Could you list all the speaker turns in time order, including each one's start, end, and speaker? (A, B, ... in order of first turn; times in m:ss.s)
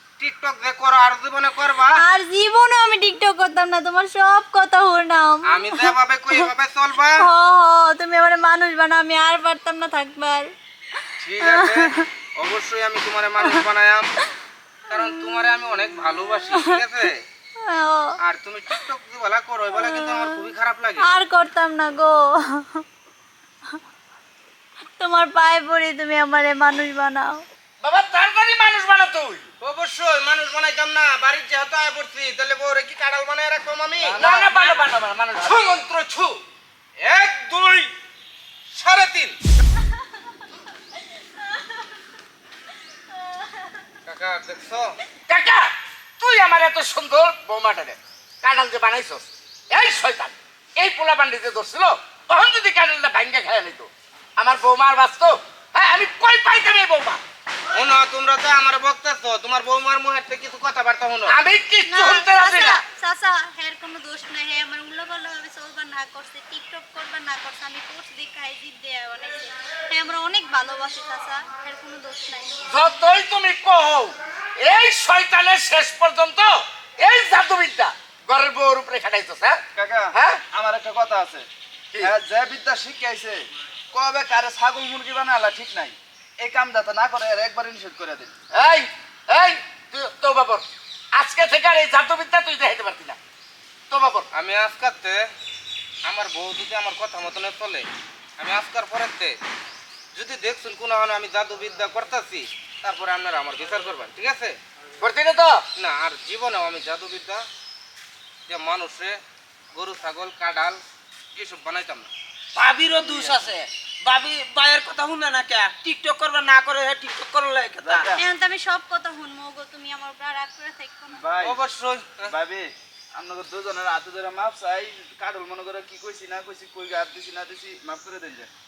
0:00.2-0:02.0 A
0:01.9-0:06.5 B
0:05.5-0:07.3 A
0:07.2-0:10.5 B
0:11.2-0:14.1 A
0:11.4-0:12.0 B
0:14.9-0:17.2 A
0:16.5-0:16.8 B
0:17.6-0:18.2 B
0:18.2-0:21.0 A
0:19.8-0:20.4 B
0:21.0-0:22.8 B
0:25.0-0:27.4 B
0:27.8-0:29.4 C
0:29.6-0:34.8 A
0:34.0-0:35.6 C
0:35.4-0:36.4 A
0:37.0-0:37.9 A
0:38.7-0:39.4 A
0:41.4-0:41.7 B
0:43.1-0:43.6 B
0:44.0-0:45.0 A
0:45.3-0:45.7 C
0:46.2-0:57.2 C
0:57.7-1:01.4 A
1:01.3-1:02.8 C
1:01.8-1:12.7 B
1:12.6-1:19.6 C
1:19.7-1:21.5 D
1:20.1-1:20.4 C
1:22.0-1:28.3 D
1:28.5-1:33.2 C
1:33.9-1:34.3 C
1:34.3-1:35.2 A
1:36.0-1:37.9 A
1:38.4-1:39.4 A
1:40.1-1:44.6 A
1:45.0-1:45.6 C
1:45.8-1:47.4 A
1:48.4-1:49.2 A
1:49.7-1:50.8 A
1:51.3-1:52.1 A
1:52.5-1:58.1 E
1:53.0-1:53.5 D
1:57.8-1:58.2 D
1:58.1-2:01.2 B
2:01.1-2:01.6 D
2:01.4-2:02.3 A
2:02.2-2:08.5 D